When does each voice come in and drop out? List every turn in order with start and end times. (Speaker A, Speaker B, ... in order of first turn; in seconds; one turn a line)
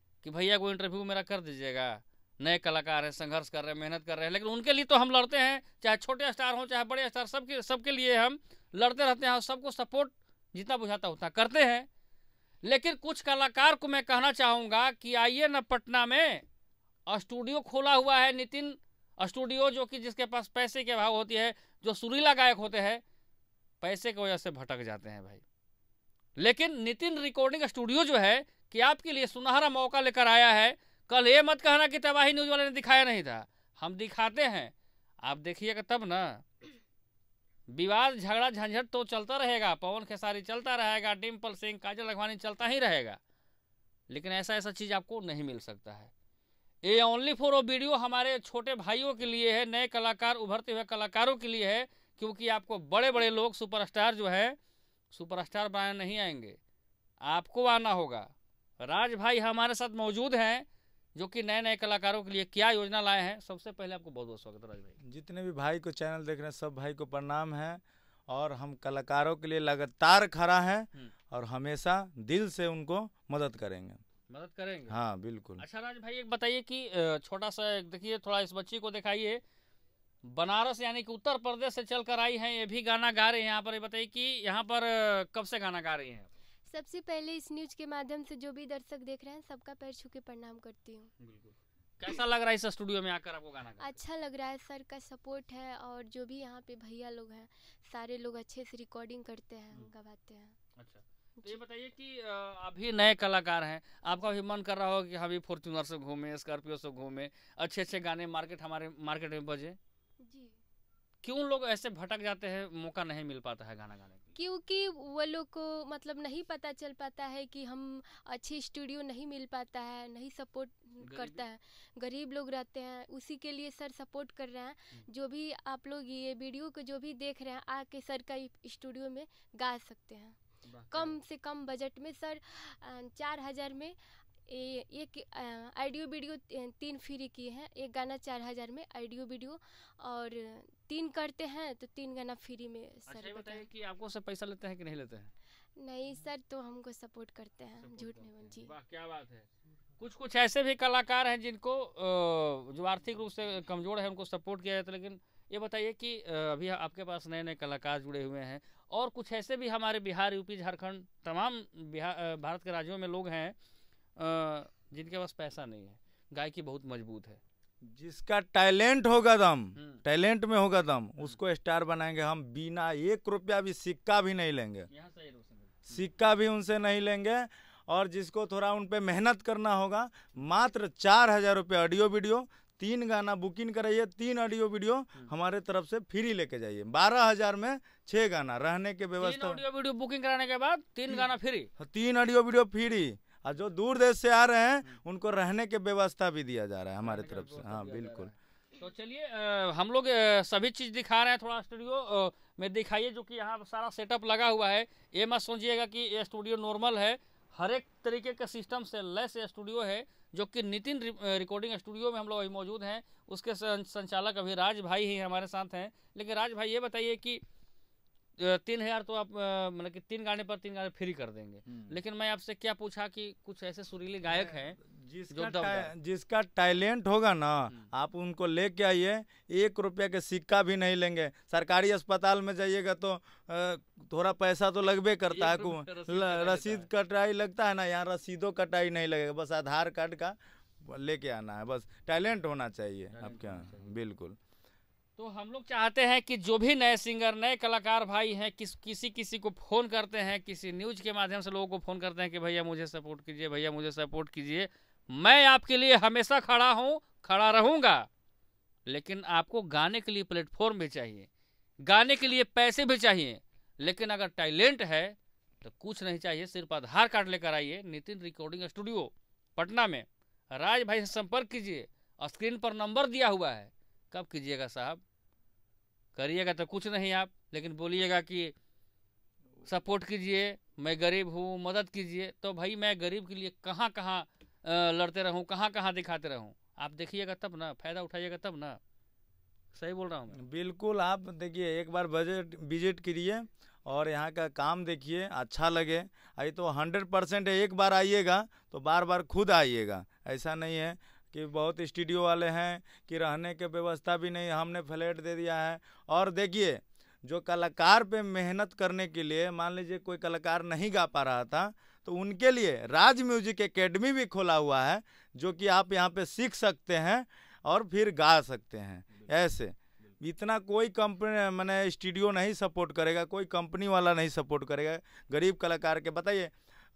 Speaker A: 0.2-11.9
Speaker A: 12.6-16.4
Speaker A: 17.1-23.0
Speaker A: 23.8-25.4
Speaker A: 26.4-36.4
Speaker A: 37.7-43.2
Speaker A: 44.1-46.1
Speaker A: 46.8-54.6
Speaker A: 55.1-56.6
Speaker A: 57.2-65.0
Speaker B: 65.0-74.0
Speaker A: 74.3-74.9
Speaker B: 74.9-75.6
Speaker A: 75.6-79.4
Speaker A: 80.2-86.3
Speaker C: 86.7-91.1
Speaker A: 91.2-93.9
Speaker C: 93.8-100.5
Speaker A: 100.8-109.8
Speaker C: 110.2-110.5
Speaker A: 111.2-114.3
Speaker C: 114.3-130.4
Speaker A: 121.0-121.4
Speaker A: 130.6-131.2
Speaker C: 130.9-143.7
Speaker A: 143.1-145.3
Speaker C: 145.8-148.7
Speaker A: 147.8-149.5
Speaker A: 150.0-163.6
Speaker A: 164.2-167.4
Speaker B: 167.8-174.9
Speaker A: 169.8-170.0
Speaker A: 174.9-176.0
Speaker B: 175.9-189.6
Speaker A: 189.2-191.7
Speaker B: 191.1-198.3
Speaker A: 197.0-217.4
Speaker A: 218.4-224.8
Speaker B: 221.7-222.0
Speaker B: 224.2-244.4
Speaker A: 225.3-225.9
Speaker A: 235.3-236.9
Speaker A: 243.1-244.0
Speaker A: 245.2-258.1
Speaker A: 258.9-261.3
Speaker A: 261.8-275.0
Speaker A: 276.1-278.5
Speaker A: 279.6-288.8
Speaker A: 289.7-290.4
Speaker B: 290.4-326.5